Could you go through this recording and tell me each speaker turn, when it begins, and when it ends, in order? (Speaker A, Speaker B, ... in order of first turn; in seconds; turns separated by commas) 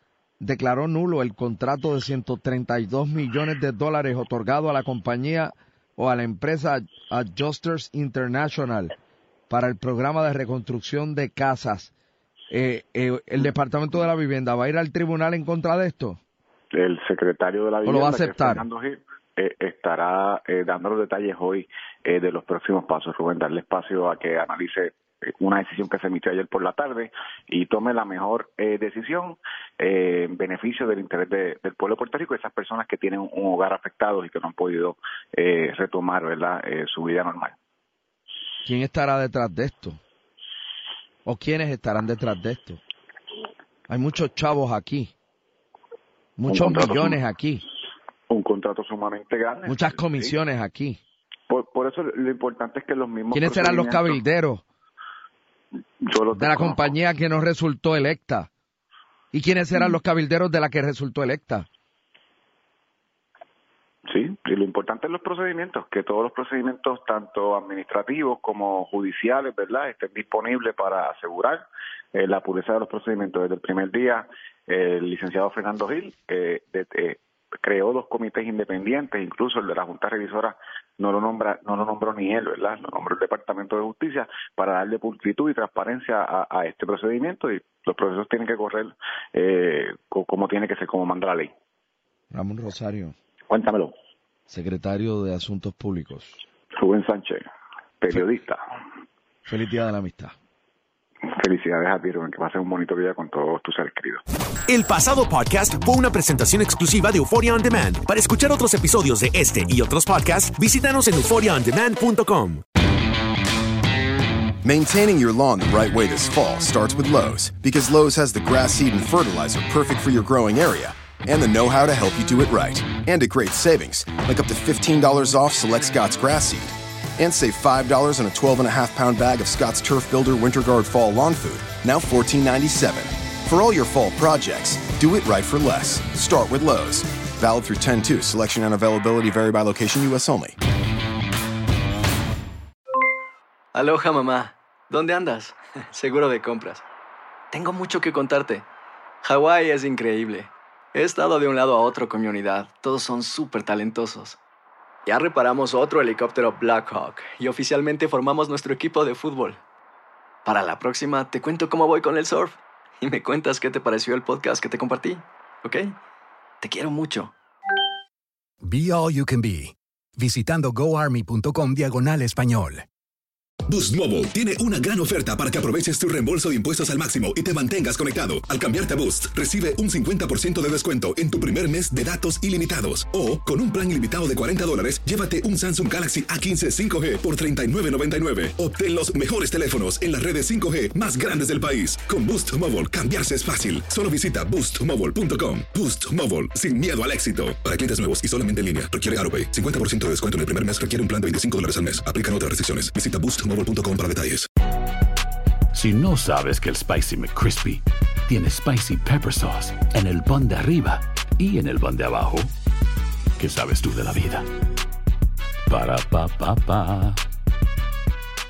Speaker A: 0.4-8.9, Speaker A: 9.5-11.9, Speaker A: 12.5-16.2, Speaker B: 16.7-37.5, Speaker A: 17.8-18.6, Speaker A: 38.6-40.0, Speaker A: 41.2-42.8, Speaker A: 43.9-45.1, Speaker A: 46.4-47.6, Speaker B: 46.5-47.2, Speaker B: 48.3-50.3, Speaker A: 49.6-51.0, Speaker B: 51.5-54.2, Speaker A: 53.3-54.6, Speaker B: 56.0-56.9, Speaker A: 56.3-58.5, Speaker A: 59.3-61.7, Speaker B: 64.1-91.5, Speaker A: 92.3-93.2, Speaker B: 93.5-93.9, Speaker A: 94.5-96.4, Speaker B: 96.8-97.4, Speaker B: 98.0-98.6, Speaker A: 99.4-100.3, Speaker B: 101.3-104.2, Speaker C: 104.7-112.6, Speaker D: 114.6-140.6, Speaker E: 143.7-146.8, Speaker E: 147.5-148.6, Speaker E: 149.2-154.4, Speaker E: 155.1-159.6, Speaker E: 160.4-165.9, Speaker E: 166.6-167.3, Speaker F: 168.6-172.8, Speaker G: 173.7-204.4, Speaker H: 205.7-212.5, Speaker H: 213.4-214.4, Speaker H: 215.7-217.2